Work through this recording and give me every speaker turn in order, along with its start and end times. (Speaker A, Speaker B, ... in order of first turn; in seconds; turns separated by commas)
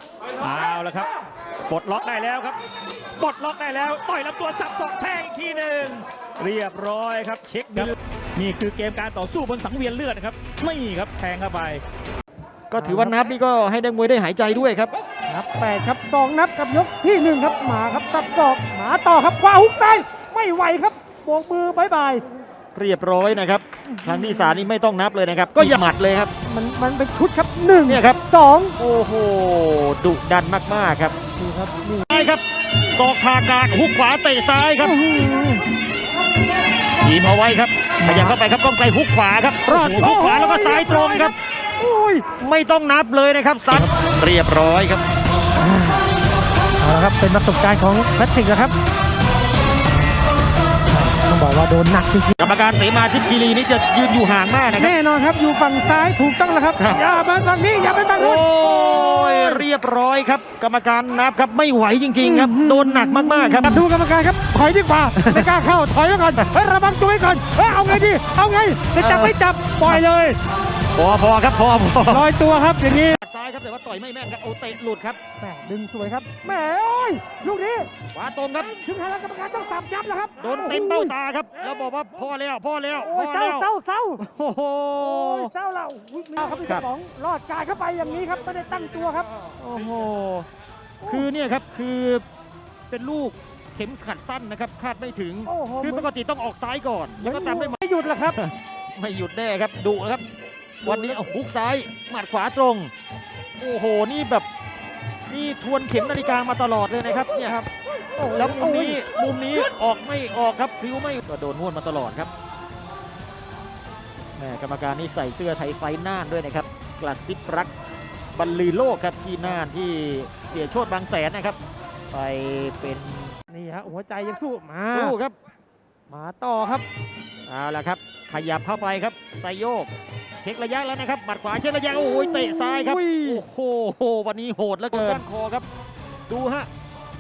Speaker A: 0.4-1.1, Speaker A: 1.7-2.6, Speaker A: 3.2-11.8, Speaker B: 12.7-14.9, Speaker C: 12.8-13.2, Speaker C: 15.3-22.3, Speaker B: 22.8-26.3, Speaker C: 23.9-24.6, Speaker C: 26.4-28.8, Speaker B: 27.9-28.2, Speaker B: 28.8-31.2, Speaker C: 31.4-32.3, Speaker B: 32.1-32.4, Speaker B: 33.0-35.0, Speaker C: 34.8-35.6, Speaker B: 37.0-41.4, Speaker C: 38.0-38.4, Speaker C: 39.7-42.3, Speaker B: 42.3-45.0, Speaker C: 45.6-46.0, Speaker C: 46.8-48.8, Speaker C: 50.9-52.4, Speaker B: 52.4-54.9, Speaker C: 54.8-58.4, Speaker B: 56.8-57.1, Speaker B: 58.2-63.9, Speaker C: 59.0-59.6, Speaker C: 62.2-70.4, Speaker B: 65.2-65.5, Speaker B: 69.0-70.0, Speaker B: 71.0-72.3, Speaker C: 72.0-73.2, Speaker B: 73.0-75.2, Speaker C: 75.4-77.9, Speaker B: 78.1-78.8, Speaker C: 78.8-81.2, Speaker B: 80.4-85.5, Speaker C: 83.0-84.2, Speaker C: 85.0-89.3, Speaker B: 86.6-86.9, Speaker B: 89.6-90.5, Speaker C: 91.0-91.3, Speaker B: 91.1-92.2, Speaker B: 92.9-97.8, Speaker C: 95.5-96.1, Speaker C: 97.2-98.4, Speaker B: 98.3-100.2, Speaker B: 100.8-102.9, Speaker C: 100.8-101.2, Speaker B: 103.6-104.5, Speaker B: 105.3-107.6, Speaker C: 107.4-109.0, Speaker B: 108.3-112.3, Speaker B: 114.4-117.7, Speaker B: 118.4-121.6, Speaker B: 122.1-123.4, Speaker C: 123.5-125.2, Speaker B: 124.9-125.4, Speaker C: 126.1-126.9, Speaker B: 127.5-135.7, Speaker C: 132.2-133.4, Speaker C: 134.9-135.2, Speaker B: 136.3-136.7